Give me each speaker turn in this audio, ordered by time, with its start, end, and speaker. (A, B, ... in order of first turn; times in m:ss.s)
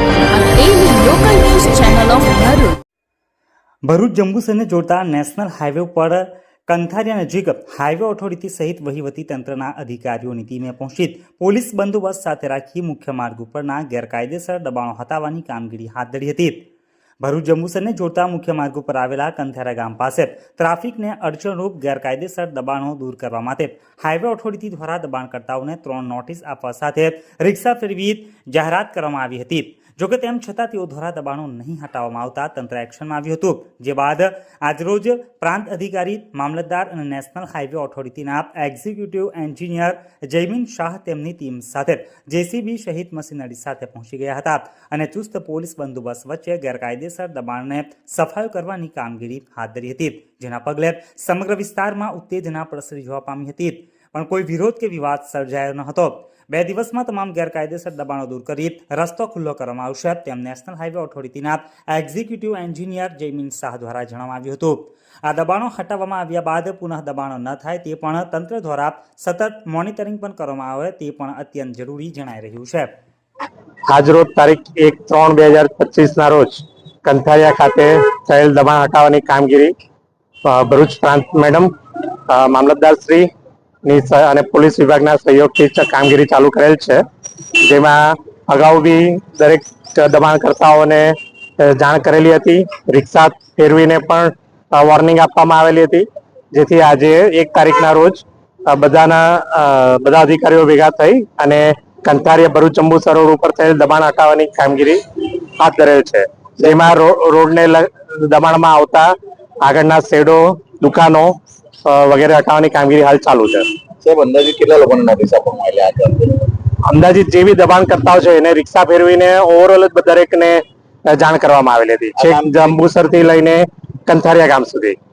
0:00.3-0:02.8 A
0:03.9-0:16.6 B
0:17.2-1:12.9 B
1:13.9-1:19.7 C
1:20.4-1:21.7 C
1:22.3-1:23.3 C
1:23.8-1:27.0 C
1:27.6-1:45.0 C
1:45.6-1:49.1 C
1:49.6-1:51.3 C
1:51.8-1:53.7 C
1:54.0-1:56.4 D
1:56.9-2:05.0 C
2:02.2-2:02.6 D